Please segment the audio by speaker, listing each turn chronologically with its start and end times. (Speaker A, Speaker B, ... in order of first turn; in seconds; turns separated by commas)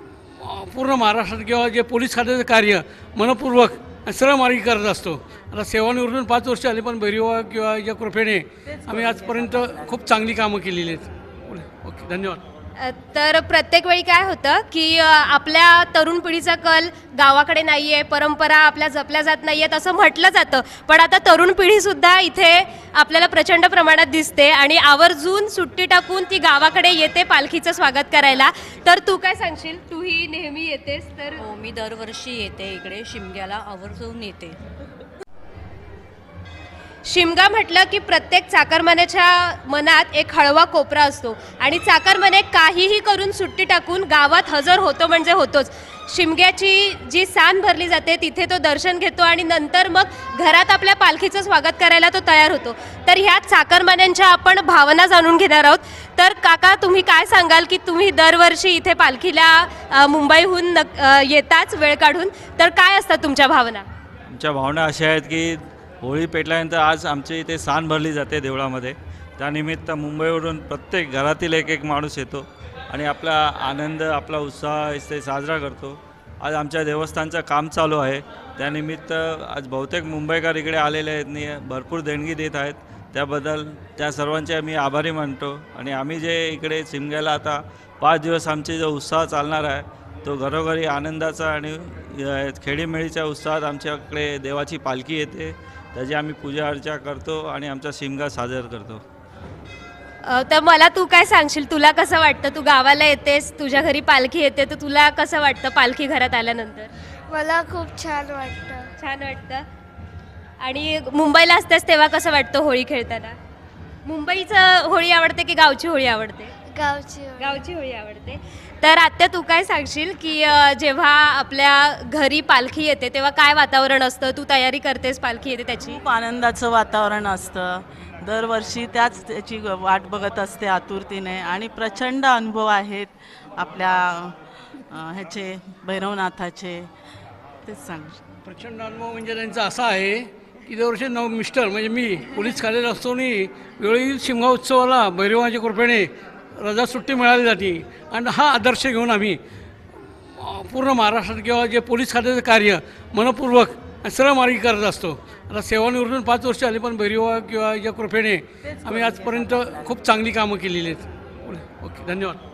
Speaker A: 0.4-12.4, Speaker B: 12.8-31.4, Speaker C: 31.4-34.6, Speaker B: 37.0-63.9, Speaker D: 64.3-99.0, Speaker B: 100.2-106.9, Speaker E: 107.3-108.9, Speaker B: 109.0-109.7, Speaker B: 110.6-113.4, Speaker B: 114.0-116.5, Speaker E: 116.7-117.6, Speaker B: 117.4-126.0, Speaker F: 125.8-134.4, Speaker F: 134.9-136.9, Speaker F: 137.7-138.2, Speaker A: 138.4-149.4, Speaker A: 150.3-162.4